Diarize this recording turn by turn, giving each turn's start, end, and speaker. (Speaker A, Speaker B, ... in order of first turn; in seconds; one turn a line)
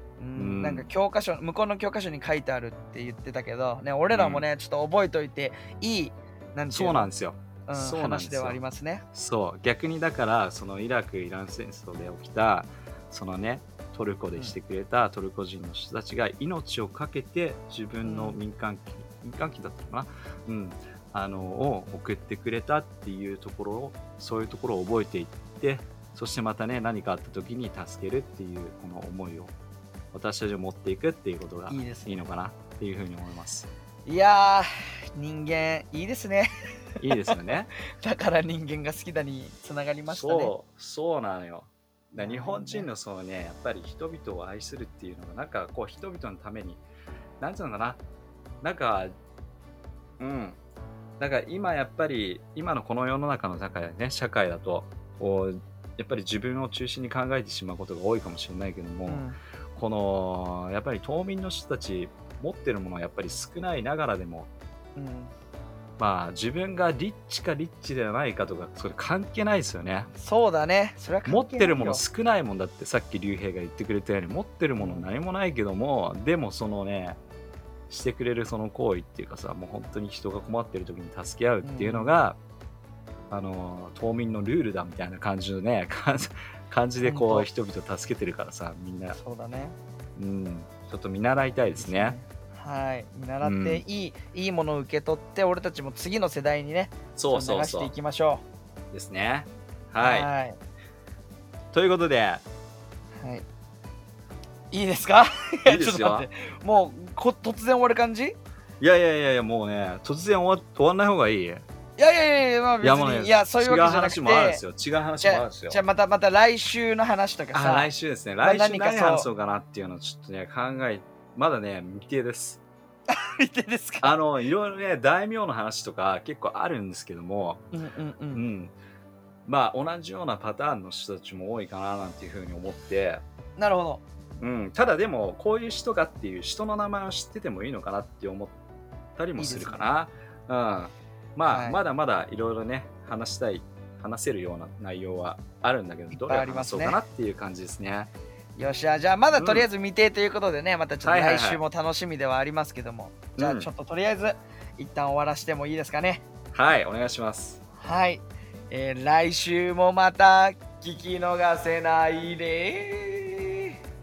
Speaker A: 0.2-7.1
Speaker B: 0.4-0.9
Speaker B: 4.1-4.5
Speaker B: 6.7-8.6
Speaker A: 7.7-9.0
Speaker B: 9.1-29.5
Speaker A: 18.0-18.4
Speaker B: 30.1-33.7
Speaker A: 31.7-32.2
Speaker A: 34.1-40.5
Speaker B: 37.0-37.7
Speaker B: 40.1-46.8
Speaker A: 42.1-42.9
Speaker B: 47.4-48.0
Speaker B: 48.6-49.1
Speaker B: 50.2-50.6
Speaker B: 51.2-64.5
Speaker A: 59.1-59.4
Speaker A: 65.0-65.3
Speaker B: 66.0-70.1
Speaker A: 70.1-72.0
Speaker B: 71.3-77.2
Speaker A: 74.8-75.1
Speaker B: 77.9-82.4
Speaker A: 81.6-82.2
Speaker B: 83.3-89.2
Speaker A: 87.0-87.5
Speaker A: 89.1-89.8
Speaker B: 90.2-92.2
Speaker A: 91.8-98.4
Speaker B: 93.4-93.8
Speaker B: 97.2-97.9
Speaker B: 98.9-100.3
Speaker A: 100.0-100.6
Speaker B: 101.7-102.4
Speaker A: 103.2-103.5
Speaker A: 104.7-108.4
Speaker B: 105.7-106.3
Speaker B: 108.8-111.7
Speaker A: 112.0-114.6
Speaker B: 112.8-115.8
Speaker A: 115.2-117.9
Speaker B: 117.5-122.6
Speaker A: 118.4-119.3
Speaker A: 123.1-124.2
Speaker B: 124.0-127.6
Speaker A: 127.7-128.4
Speaker B: 128.3-128.7
Speaker B: 129.4-133.2
Speaker A: 133.6-134.0
Speaker B: 134.4-138.6
Speaker B: 139.2-148.1
Speaker A: 139.4-139.9
Speaker A: 141.5-141.8
Speaker A: 146.1-147.0
Speaker A: 148.6-156.2
Speaker B: 149.4-149.7
Speaker B: 151.0-151.6
Speaker B: 153.4-153.7
Speaker B: 156.5-157.6
Speaker A: 157.8-163.7